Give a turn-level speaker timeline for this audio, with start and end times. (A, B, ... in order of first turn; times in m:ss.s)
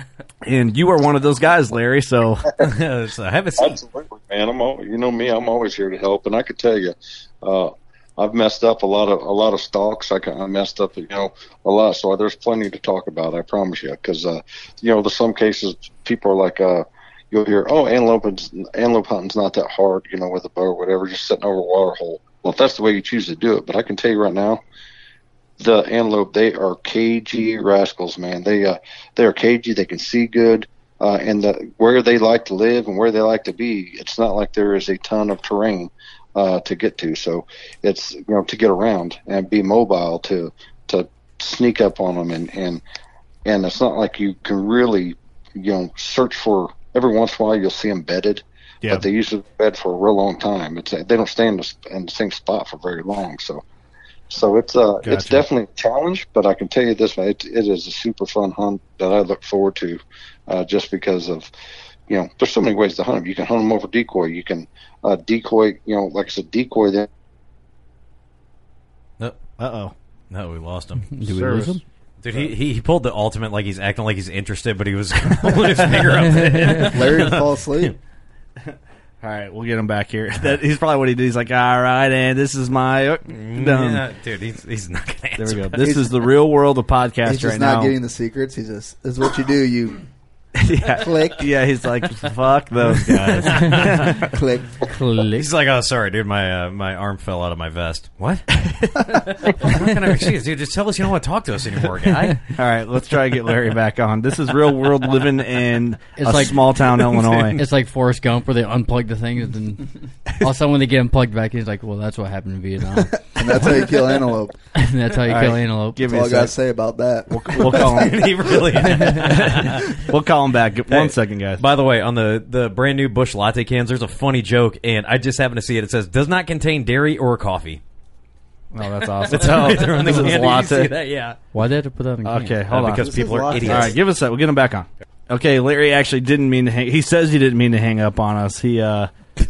0:00.4-0:02.5 A
0:02.6-0:03.8 B
0:03.6-0:24.6 C
0:25.6-0:42.8 C
0:43.5-0:53.6 C
0:54.3-1:01.5 C
0:55.0-0:55.4 A
1:02.1-1:07.1 C
1:09.6-1:09.9 A
1:10.3-1:11.1 B
1:11.2-1:11.8 D
1:11.2-1:11.8 A
1:12.2-1:17.9 B
1:16.8-1:18.0 E
1:19.2-1:24.0 A
1:23.3-1:25.9 B
1:25.4-1:28.0 A
1:27.2-1:30.0 E
1:30.6-1:34.2 A
1:31.0-1:31.4 E
1:33.0-1:34.2 B
1:34.2-1:34.7 E
1:34.8-1:35.4 D
1:35.4-1:38.5 B
1:39.1-1:42.5 B
1:42.6-1:47.6 A
1:46.2-1:53.8 D
1:53.2-1:54.6 E
1:54.8-1:56.0 D
1:55.3-1:56.6 A
1:56.0-1:58.1 E
1:57.3-1:58.2 A
1:57.7-2:00.0 B
1:59.0-2:01.6 A
2:00.9-2:07.8 B
2:08.7-2:10.9 A
2:09.3-2:11.4 B
2:11.5-2:12.6 D
2:12.2-2:19.1 A
2:12.7-2:14.0 B
2:12.9-2:13.9 E